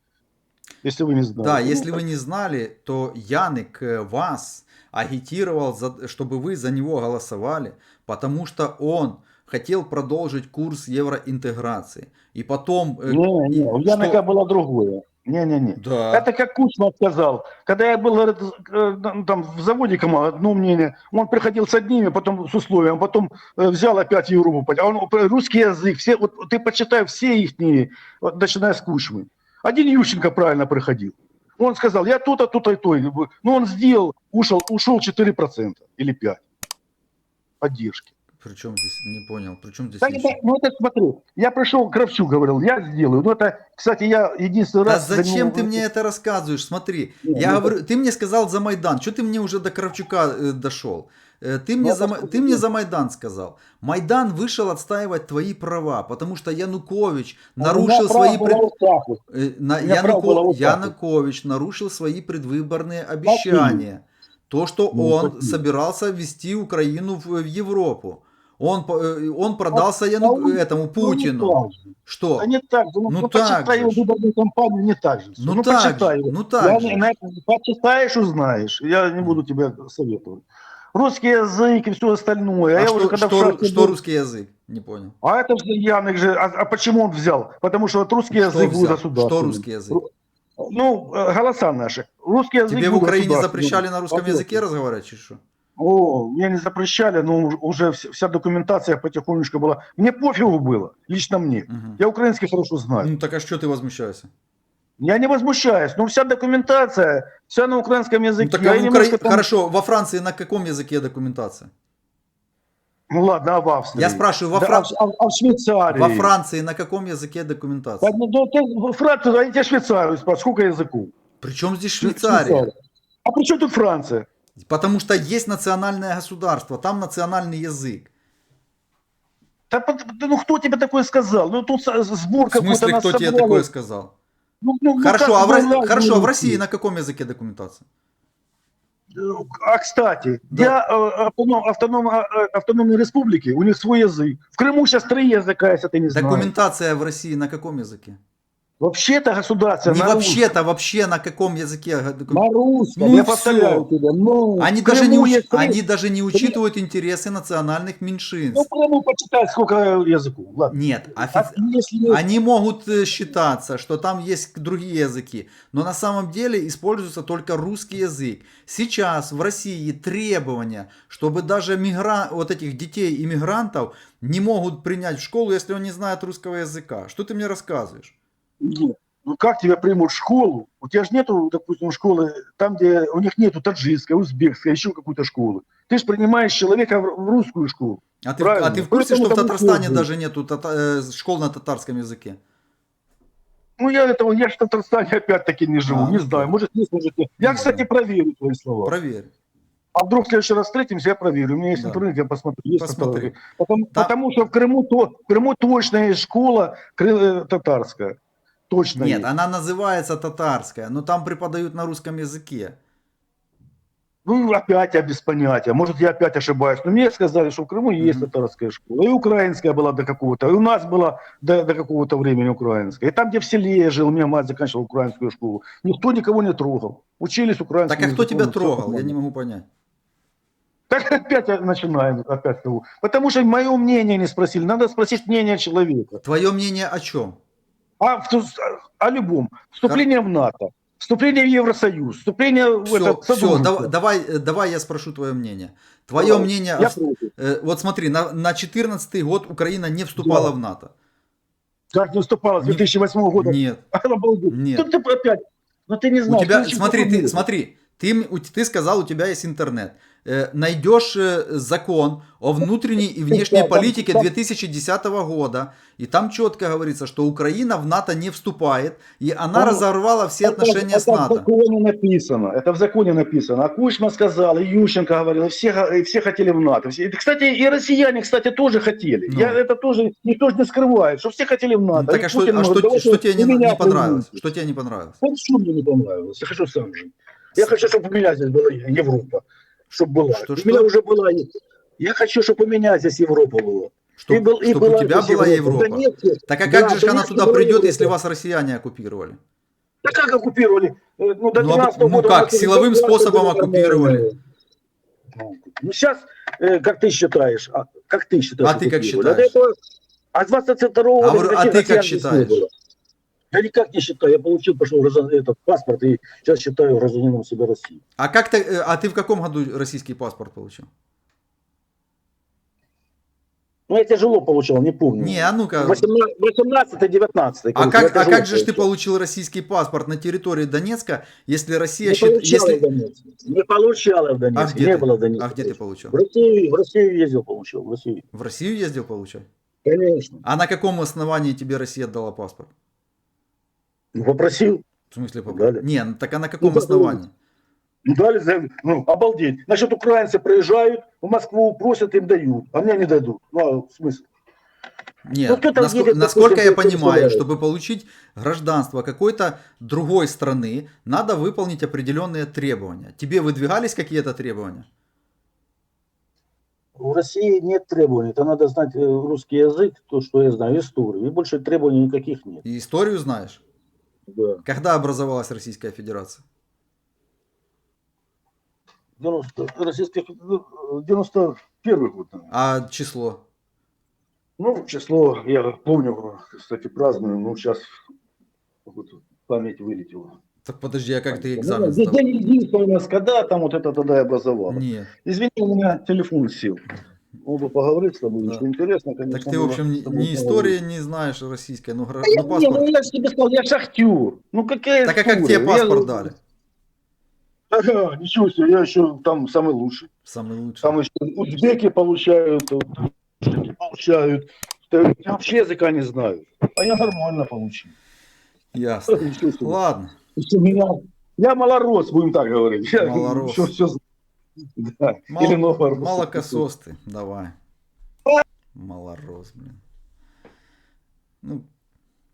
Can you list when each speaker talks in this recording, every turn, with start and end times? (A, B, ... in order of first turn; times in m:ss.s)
0:00.8-0:02.0 A
0:01.4-0:14.2 B
0:13.1-0:36.4 A
0:15.8-0:16.3 B
0:37.6-0:38.1 A
0:38.4-0:40.4 B
0:40.0-0:45.8 A
0:44.8-0:58.6 B
0:47.2-0:47.7 A
0:51.8-0:52.6 A
0:57.6-0:59.2 A
0:59.3-1:12.5 B
0:59.8-1:00.9 A
1:03.2-1:03.8 A
1:04.9-1:05.6 A
1:09.7-1:11.8 A
1:12.4-1:24.0 A
1:13.1-1:14.0 B
1:15.4-1:17.0 B
1:22.8-1:25.1 B
1:25.2-1:30.1 A
1:28.3-1:30.0 B
1:30.6-1:34.6 A
1:32.7-1:35.4 B
1:35.8-1:43.1 A
1:41.7-1:42.0 B
1:43.0-1:44.3 B
1:45.0-1:49.5 A
1:48.4-1:51.7 B
1:53.1-1:56.3 A
1:54.0-1:54.9 B
1:55.9-1:58.1 B
1:58.0-2:01.1 A
2:01.4-2:02.7 B
2:02.0-2:02.7 A
2:03.2-2:04.3 A
2:04.6-2:08.1 B
2:09.7-2:13.6 A
2:12.5-2:14.1 B
2:14.6-2:16.6 A
2:15.0-2:17.8 B
2:19.1-2:26.5 A
2:26.1-2:28.2 B
2:28.8-2:30.5 A
2:29.8-2:32.4 B
2:32.3-2:35.8 A
2:33.0-2:33.9 B
2:34.6-2:38.7 B
2:38.5-2:42.2 A
2:40.7-2:58.1 B
2:58.6-3:10.1 A
3:08.2-3:12.4 B
3:13.8-3:18.9 A
3:15.9-3:16.5 B
3:17.4-3:17.8 B
3:18.8-3:19.3 B
3:20.0-3:28.2 A
3:21.7-3:22.0 B
3:22.8-3:23.3 B
3:28.7-3:29.3 A
3:29.0-3:32.8 B
3:34.2-3:49.1 A
3:38.0-3:38.3 B
3:47.9-3:49.7 B
3:50.9-3:56.2 A
3:56.2-3:57.4 B
3:58.0-4:03.9 A
4:02.8-4:10.9 B
4:06.2-4:07.3 A
4:10.2-4:10.5 A
4:11.9-4:17.4 A
4:13.3-4:13.8 B
4:14.5-4:14.8 B
4:16.3-4:31.5 B
4:23.3-4:24.3 A
4:29.5-4:29.8 A
4:30.4-4:44.4 A
4:39.3-4:39.6 B
4:41.9-4:45.2 B
4:45.2-4:58.1 A
4:47.6-4:47.8 B
4:50.3-4:50.9 B
4:54.2-4:59.4 B
5:00.0-5:04.4 A
5:01.6-5:04.3 B
5:05.4-5:09.7 A
5:08.6-5:09.5 B
5:10.3-5:12.7 A
5:11.2-5:12.6 B
5:13.5-5:18.0 A
5:18.2-5:20.9 B
5:23.9-5:28.8 A
5:25.2-5:26.0 B
5:27.7-5:32.8 B
5:32.0-5:38.2 A
5:34.5-5:36.2 B
5:38.3-5:39.5 B
5:39.8-5:40.4 A
5:40.4-5:42.7 B
5:44.1-5:44.8 A
5:45.1-5:47.3 B
5:45.5-5:45.8 A
5:46.6-5:47.2 A
5:48.0-5:54.3 A
5:55.2-6:04.8 B
5:55.5-5:57.4 A
6:07.0-6:12.6 A
6:12.6-6:13.6 B
6:14.3-6:14.6 A
6:14.6-6:16.4 B
6:19.2-6:22.5 A
6:22.5-6:23.4 B
6:24.6-6:27.9 A
6:28.8-6:30.4 A
6:30.6-6:32.2 B
6:31.3-6:36.8 A
6:34.7-6:35.1 B
6:37.4-6:40.8 A
6:39.3-6:42.8 B
6:42.2-6:46.3 A
6:45.0-6:46.3 B
6:47.7-6:50.1 A
6:50.2-6:51.0 B
6:50.8-6:57.9 A
6:58.7-7:00.1 B
6:59.1-6:59.8 A
7:00.4-7:04.0 A
7:03.0-7:03.7 B
7:04.7-7:06.6 A
7:05.3-7:07.5 B
7:08.7-7:09.8 B
7:11.4-7:11.7 B